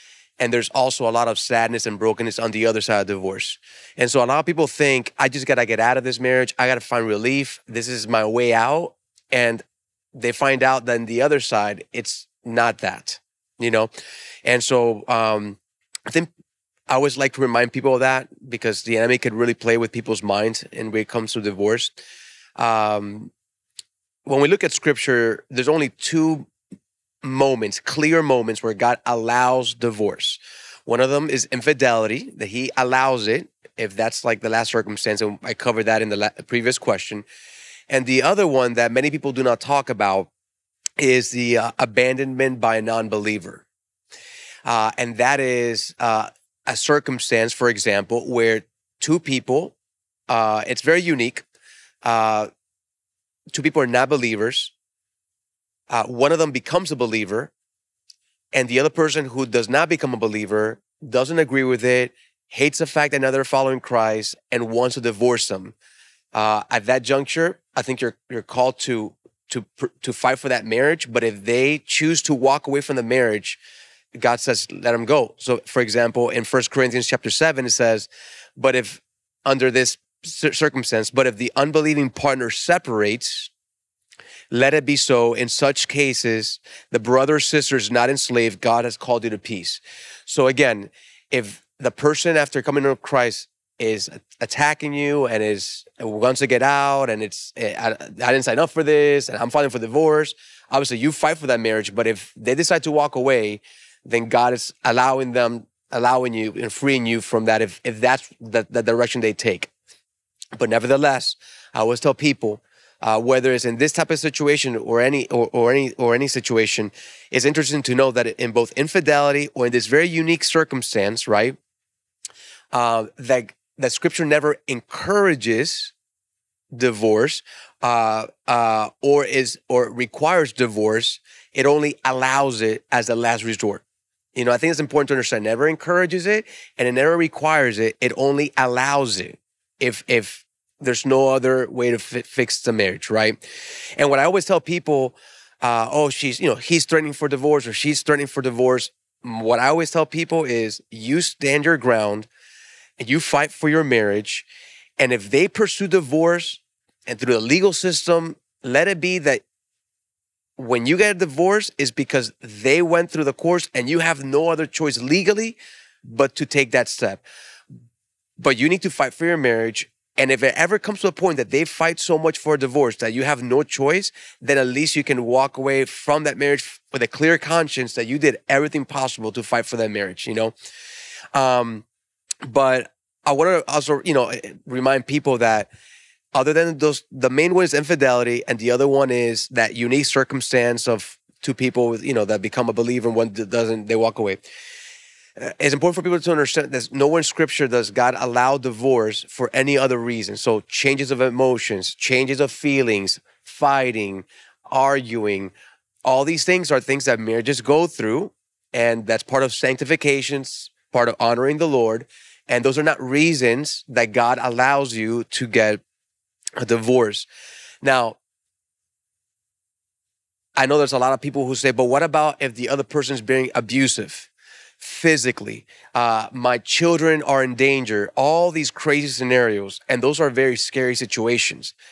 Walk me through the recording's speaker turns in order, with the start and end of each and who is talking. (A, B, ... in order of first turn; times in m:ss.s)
0:00.4-0:09.6 A
0:10.1-0:13.9 A
0:14.4-0:16.3 A
0:16.9-0:21.9 A
0:22.6-0:23.3 A
0:24.2-0:26.5 A
0:27.2-0:37.2 A
0:37.9-0:40.3 A
0:41.0-0:43.6 A
0:44.6-0:49.7 A
0:50.3-0:51.4 A
0:52.0-0:52.5 A
0:53.5-0:54.7 A
0:55.9-0:57.5 A
0:58.5-1:05.7 A
1:06.3-1:13.6 A
1:14.1-1:23.5 A
1:24.5-1:49.7 A
1:50.5-2:01.6 A
2:02.7-2:05.9 A
2:06.7-2:13.8 A
2:14.3-2:23.4 A
2:24.0-2:32.3 A
2:33.0-2:34.4 A
2:35.0-2:39.4 A
2:40.6-2:47.2 A
2:48.4-3:00.5 A
3:01.3-3:01.8 A
3:02.4-3:05.7 A
3:06.3-3:14.4 A
3:15.4-3:25.5 A
3:26.0-3:35.8 A
3:36.6-3:37.3 A
3:37.8-3:38.2 A
3:40.6-3:44.3 A
3:44.8-3:51.7 A